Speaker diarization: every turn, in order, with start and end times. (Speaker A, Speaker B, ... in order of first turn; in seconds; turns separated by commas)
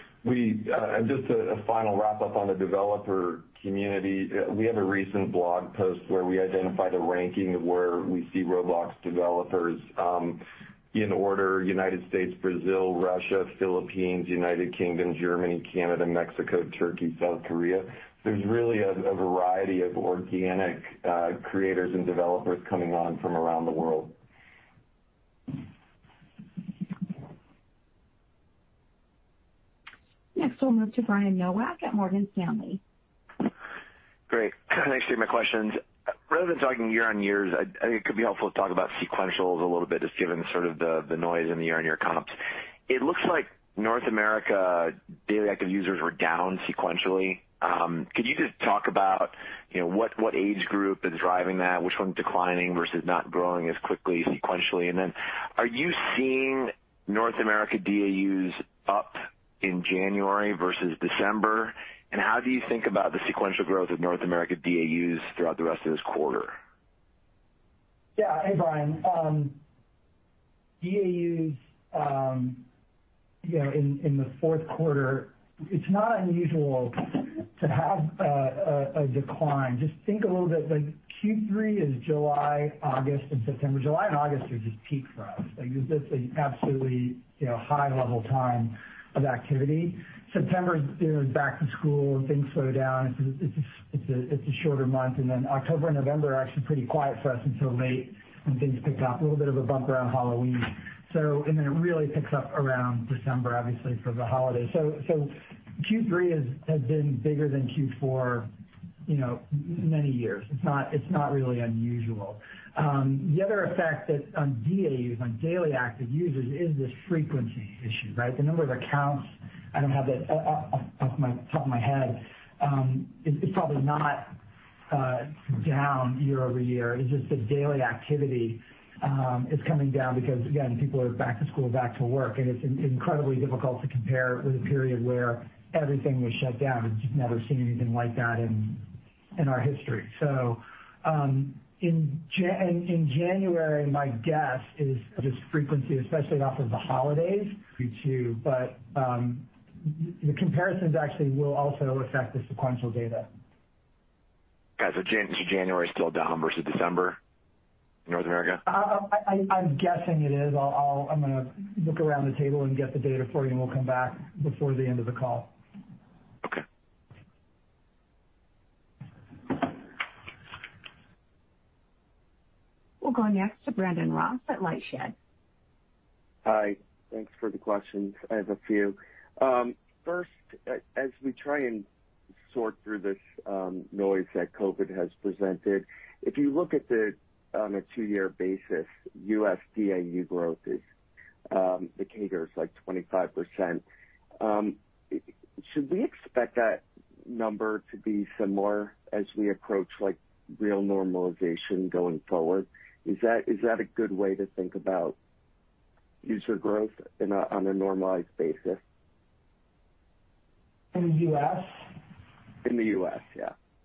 Speaker A: 0.2-24.1, Speaker B: 30.3-32.8, Speaker C: 34.3-42.4, Speaker C: 42.9-66.5, Speaker D: 68.2-69.6, Speaker D: 70.8-72.6, Speaker D: 73.4-108.5, Speaker D: 109.1-124.3, Speaker D: 124.9-153.3, Speaker C: 154.8-157.2, Speaker C: 158.1-158.6, Speaker D: 158.7-165.5, Speaker B: 173.0-175.1, Speaker E: 176.4-181.8, Speaker E: 182.5-190.8, Speaker E: 191.5-193.8, Speaker E: 194.4-205.2, Speaker E: 206.2-208.8, Speaker D: 210.9-211.8, Speaker E: 212.6-213.5